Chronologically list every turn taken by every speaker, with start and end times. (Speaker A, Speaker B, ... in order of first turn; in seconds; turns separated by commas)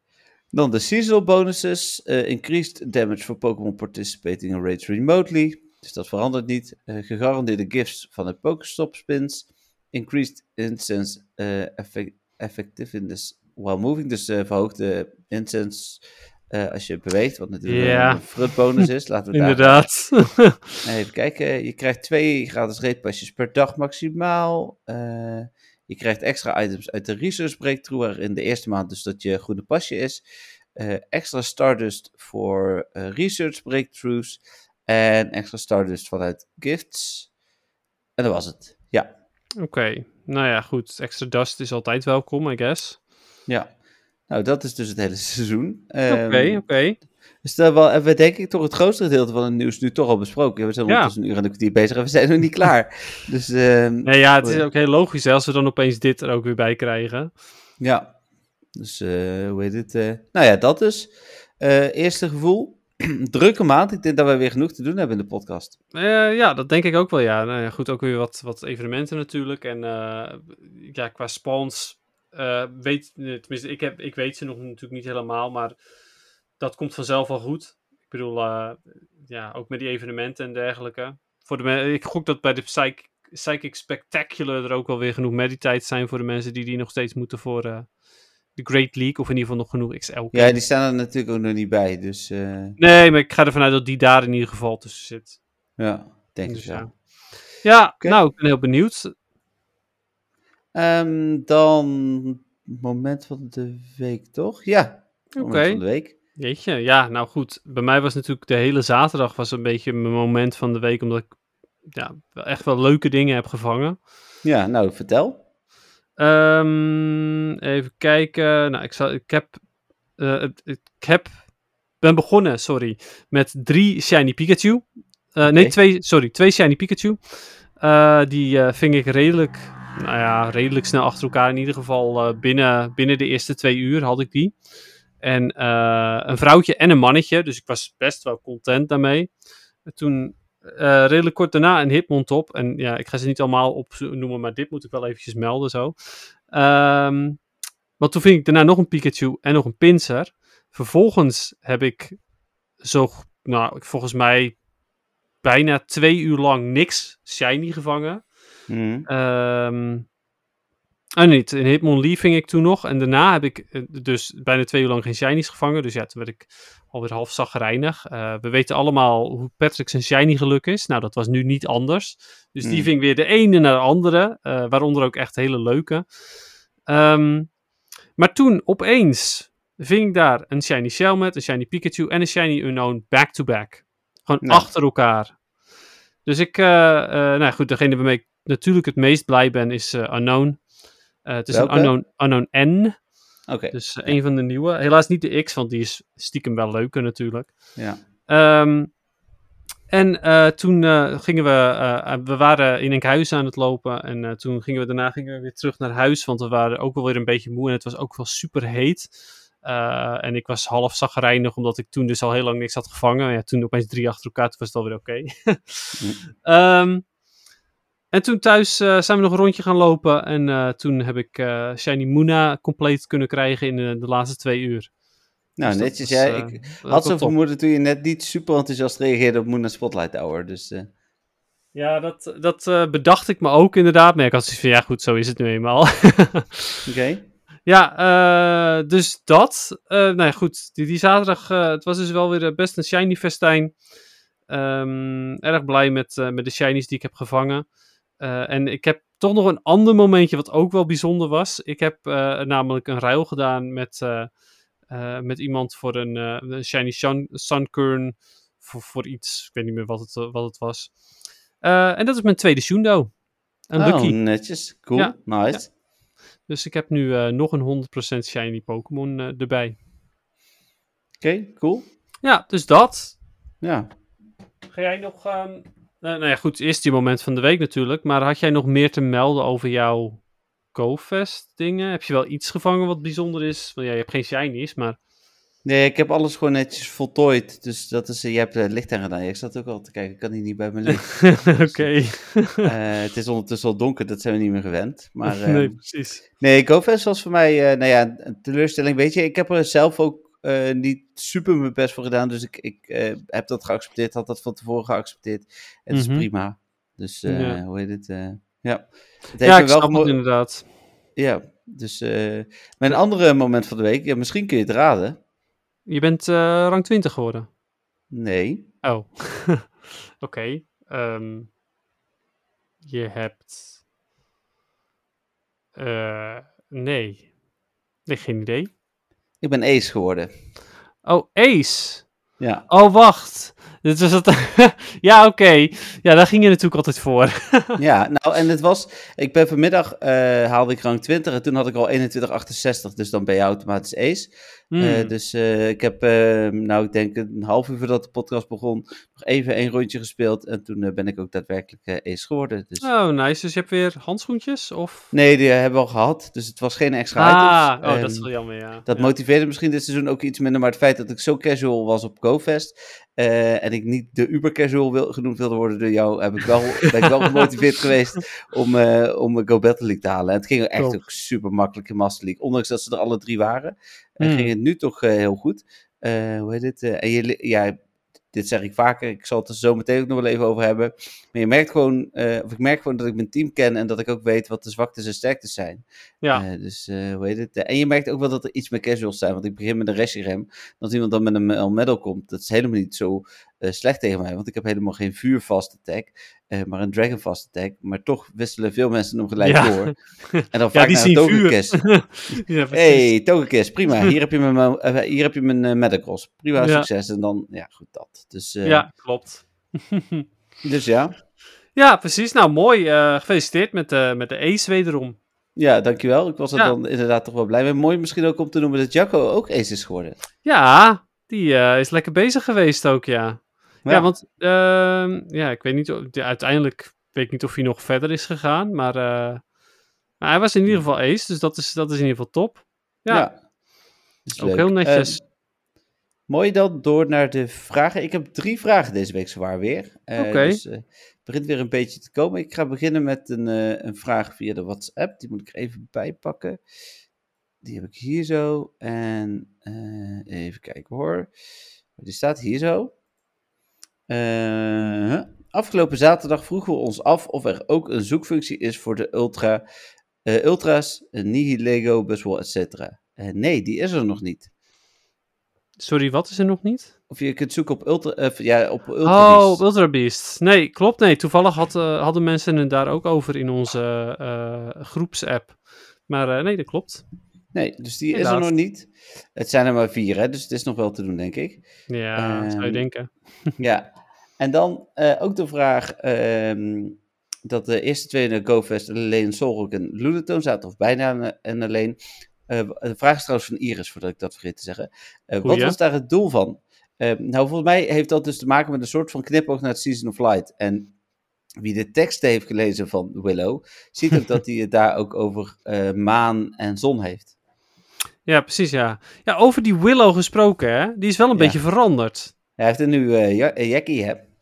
Speaker A: 0.5-19.9, Speaker B: 17.7-18.3, Speaker B: 19.3-20.6, Speaker A: 20.8-30.2, Speaker A: 30.8-37.3, Speaker A: 38.2-39.1, Speaker B: 39.6-43.0, Speaker A: 43.5-43.7, Speaker A: 44.3-46.6, Speaker B: 46.1-47.0, Speaker A: 47.4-54.6, Speaker B: 50.9-51.1, Speaker B: 54.0-57.3, Speaker A: 57.8-58.1, Speaker A: 58.8-65.8, Speaker B: 65.9-75.8, Speaker B: 76.6-88.0, Speaker B: 88.5-90.6, Speaker A: 90.3-92.8, Speaker B: 92.8-95.4, Speaker A: 95.8-97.1, Speaker B: 96.5-99.1, Speaker A: 100.8-106.1, Speaker B: 105.4-105.8, Speaker B: 106.3-114.0, Speaker A: 114.4-115.4, Speaker B: 116.2-119.6, Speaker B: 120.2-134.6, Speaker A: 125.4-125.8, Speaker B: 135.2-139.3, Speaker B: 139.8-147.4, Speaker B: 148.0-152.2, Speaker B: 152.8-154.6, Speaker B: 155.4-158.3, Speaker A: 158.7-159.1, Speaker B: 159.1-160.1, Speaker B: 161.2-176.1, Speaker A: 172.6-172.9, Speaker B: 176.8-177.6, Speaker B: 178.2-185.4, Speaker A: 184.4-184.7, Speaker B: 186.2-193.2, Speaker A: 191.5-191.9, Speaker A: 193.5-194.2, Speaker B: 193.7-199.0, Speaker B: 199.9-217.1, Speaker B: 218.1-225.0, Speaker A: 225.6-230.9, Speaker B: 225.6-227.3, Speaker B: 231.7-236.9, Speaker A: 236.9-237.2, Speaker B: 237.7-243.8, Speaker B: 244.5-247.7, Speaker B: 248.2-254.3, Speaker B: 254.9-261.1, Speaker B: 261.6-264.4, Speaker A: 263.8-265.7, Speaker B: 264.9-265.8, Speaker B: 266.4-269.8, Speaker A: 271.2-271.9, Speaker B: 272.2-273.2, Speaker A: 273.6-273.9, Speaker B: 274.7-285.0, Speaker A: 285.6-310.2, Speaker B: 290.9-292.6, Speaker B: 295.3-296.2, Speaker B: 305.9-306.3, Speaker B: 307.3-307.6, Speaker B: 309.4-310.6, Speaker A: 311.2-315.2, Speaker B: 315.9-317.5, Speaker A: 318.1-318.7, Speaker B: 318.8-321.5, Speaker B: 322.8-323.8, Speaker B: 325.8-327.3, Speaker B: 328.1-328.7, Speaker A: 329.4-330.3, Speaker B: 331.0-337.8, Speaker A: 332.4-332.7, Speaker A: 337.8-352.9, Speaker B: 344.7-345.1, Speaker B: 352.8-355.1, Speaker A: 355.1-377.8, Speaker B: 357.2-359.1, Speaker B: 366.8-367.5, Speaker B: 374.2-374.5, Speaker A: 378.3-408.9, Speaker B: 399.4-403.2, Speaker B: 406.6-406.9, Speaker B: 408.6-410.2, Speaker A: 410.6-411.1, Speaker B: 411.8-415.2, Speaker A: 415.6-420.2, Speaker B: 420.4-429.5, Speaker B: 430.2-433.3, Speaker A: 433.1-433.4, Speaker A: 434.2-435.2, Speaker B: 434.4-435.2, Speaker A: 436.3-446.6, Speaker B: 440.2-440.6, Speaker A: 447.6-451.3, Speaker A: 452.0-452.9, Speaker A: 454.1-459.6, Speaker A: 460.2-464.5, Speaker B: 465.8-466.9, Speaker A: 467.1-469.6, Speaker B: 469.0-477.1, Speaker A: 477.5-481.6, Speaker B: 478.1-478.5, Speaker B: 481.9-483.5, Speaker A: 482.2-482.9, Speaker A: 483.6-492.0, Speaker A: 492.5-500.9, Speaker B: 495.4-495.8, Speaker A: 501.6-507.3, Speaker B: 508.2-512.3, Speaker A: 512.6-514.2